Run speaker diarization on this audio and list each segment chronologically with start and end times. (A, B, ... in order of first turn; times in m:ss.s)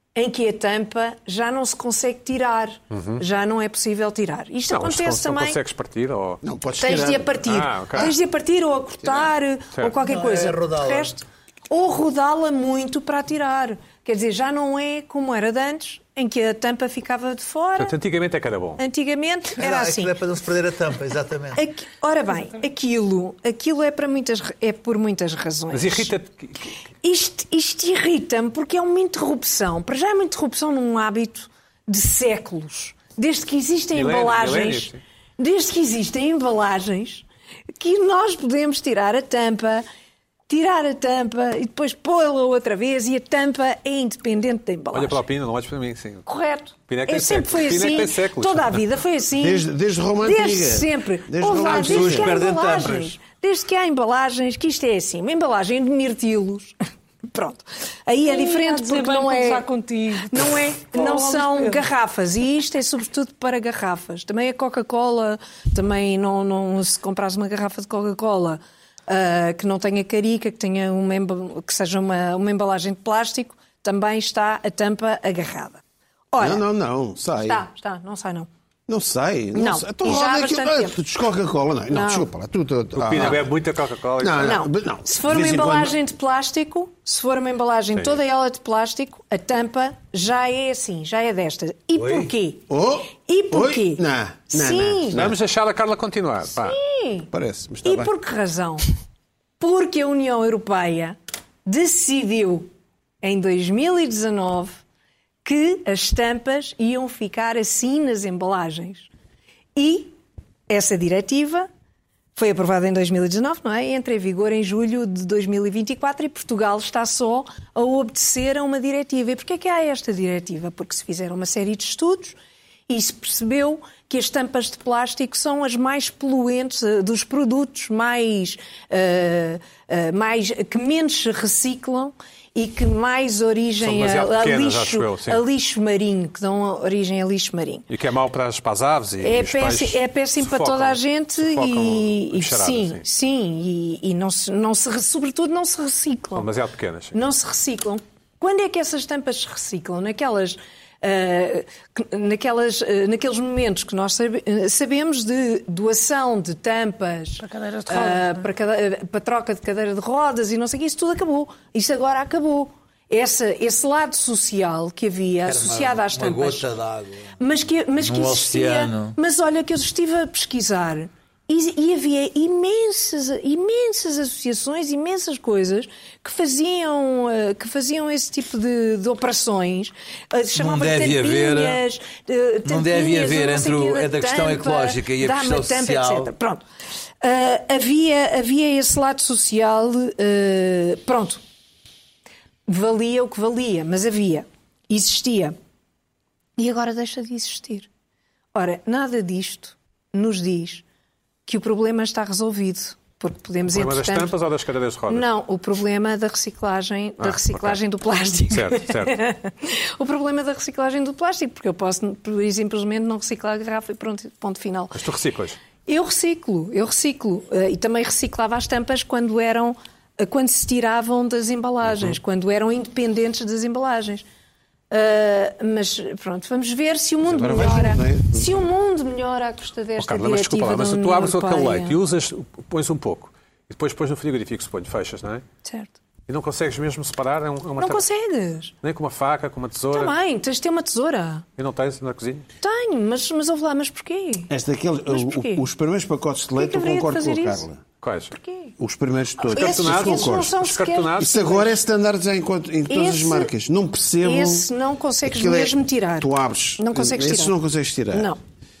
0:00.1-0:05.6 A
0:02.9-0:03.2 B
0:04.7-0:06.4 B
0:06.4-0:07.4 C
0:06.8-0:17.9 A
0:07.4-0:08.1 B
0:10.0-0:11.1 D
0:17.8-0:18.8 B
0:18.8-0:20.2 A
0:19.6-0:21.6 D
0:21.5-0:26.1 A
0:25.7-0:26.7 B
0:27.0-0:37.2 A
0:33.9-0:35.0 B
0:37.8-0:39.8 A
0:40.5-0:45.2 A
0:44.9-0:46.2 B
0:46.2-0:49.7 A
0:46.9-0:48.8 B
0:49.4-0:52.4 C
0:50.2-0:56.7 A
0:51.6-0:53.1 D
0:57.3-0:59.7 A
0:58.2-1:01.8 E
1:00.2-1:15.8 A
1:16.3-1:16.6 A
1:16.4-1:17.6 C
1:17.4-1:18.5 A
1:18.9-1:23.5 C
1:19.5-1:21.0 A
1:21.9-1:22.3 A
1:23.0-1:24.6 B
1:24.2-1:26.0 C
1:24.4-1:32.6 A
1:31.9-1:32.3 D
1:32.7-1:35.4 C
1:33.2-1:35.3 A
1:35.1-1:36.8 B
1:36.6-1:37.3 A
1:37.3-1:38.1 C
1:37.8-1:38.9 A
1:39.6-1:42.7 A
1:43.2-1:44.8 A
1:45.4-1:49.1 A
1:49.8-1:50.1 A
1:50.7-1:51.7 A
1:52.4-2:02.4 A
2:02.9-2:17.9 A
2:13.8-2:15.4 B
2:17.9-2:23.0 B
2:19.2-2:26.5 A
2:26.3-2:27.1 B
2:27.1-2:46.7 A
2:37.4-2:38.4 E
2:45.4-2:47.4 D
2:47.4-3:06.6 A
2:48.0-2:49.2 D
3:00.6-3:01.8 D
3:02.6-3:06.3 D
3:07.2-3:11.4 A
3:12.7-3:15.6 A
3:16.6-3:17.9 A
3:18.5-3:20.8 A
3:21.4-3:24.4 A
3:23.7-3:25.3 B
3:25.1-3:35.0 A
3:27.2-3:27.8 B
3:28.5-3:29.2 B
3:34.9-3:35.6 B
3:35.8-3:44.2 A
3:44.9-3:52.0 A
3:47.2-3:48.6 C
3:50.0-3:55.4 B
3:55.6-3:55.9 A
3:56.3-3:58.0 B
3:57.8-3:58.7 A
3:58.8-4:00.1 B
3:59.9-4:01.4 A
4:01.6-4:02.4 B
4:02.6-4:04.5 A
4:04.5-4:07.8 C
4:05.1-4:05.6 A
4:06.6-4:07.6 A
4:08.0-4:08.3 B
4:08.3-4:08.7 A
4:08.8-4:10.6 C
4:09.4-4:11.8 A
4:09.5-4:11.3 B
4:11.2-4:14.7 C
4:12.9-4:13.5 A
4:14.2-4:17.5 A
4:15.2-4:18.3 C
4:18.1-4:18.4 A